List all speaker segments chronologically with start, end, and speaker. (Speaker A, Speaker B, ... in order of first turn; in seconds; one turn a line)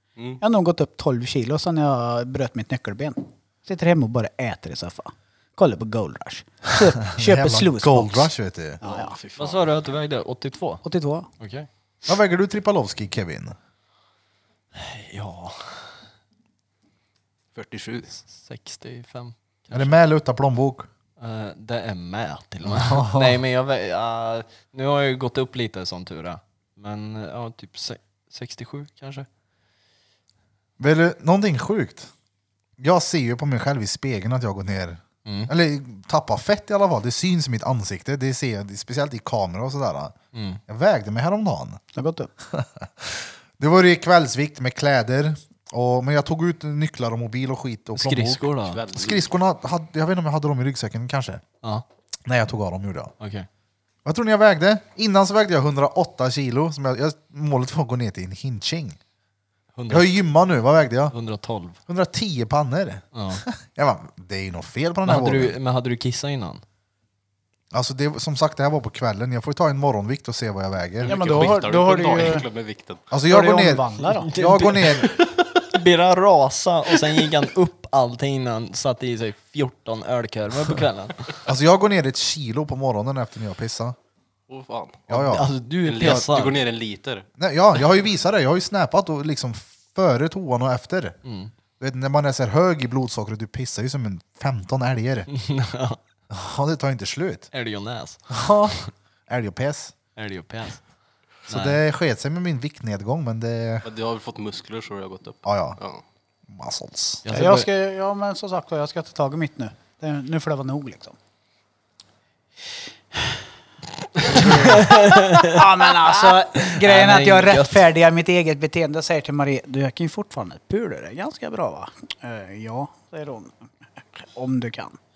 Speaker A: 0.2-0.4
Speaker B: 0.4-9.2
Speaker C: 7.1-8.8
Speaker A: 8.8-9.7
Speaker D: 9.4-10.8
Speaker B: 10.8-11.3
Speaker D: 11.4-11.7
Speaker C: 12.1-13.6
Speaker D: 14.7-16.0
Speaker A: 17.5-18.1
Speaker D: 18.2-19.9
Speaker C: 19.7-20.9
Speaker D: 21.2-29.3
Speaker C: 22.6-23.4
Speaker C: 30.8-32.1
Speaker C: 32.8-40.1
Speaker D: 35.2-35.5
Speaker D: 40.3-40.6
Speaker C: 40.7-41.8
Speaker B: 41.9-42.3
Speaker C: 42.5-51.4
Speaker D: 48.0-48.8
Speaker A: 48.7-49.3
Speaker C: 52.3-53.1
Speaker D: 53.2-53.5
Speaker C: 54.0-59.0
Speaker D: 59.8-60.1
Speaker C: 59.9-61.1
Speaker D: 61.1-61.8
Speaker C: 61.9-65.6
Speaker D: 63.1-63.4
Speaker D: 65.0-66.6
Speaker C: 67.7-71.6
Speaker A: 71.0-73.0
Speaker B: 71.1-72.5
Speaker C: 73.1-75.2
Speaker B: 73.3-74.3
Speaker D: 74.2-81.4
Speaker C: 81.5-84.0
Speaker A: 84.5-85.0
Speaker C: 85.1-86.3
Speaker D: 85.1-86.7
Speaker A: 85.8-87.3
Speaker C: 87.4-91.2
Speaker D: 91.2-91.5
Speaker C: 91.8-95.3
Speaker D: 95.3-96.0
Speaker C: 96.3-97.5
Speaker D: 97.5-98.9
Speaker C: 98.3-100.0
Speaker D: 100.2-100.8
Speaker D: 101.5-101.8
Speaker C: 101.5-103.8
Speaker A: 103.8-106.0
Speaker C: 105.5-105.8
Speaker C: 106.5-107.2
Speaker D: 107.2-107.7
Speaker B: 107.3-111.2
Speaker B: 114.3-125.0
Speaker D: 114.4-115.6
Speaker D: 116.2-117.9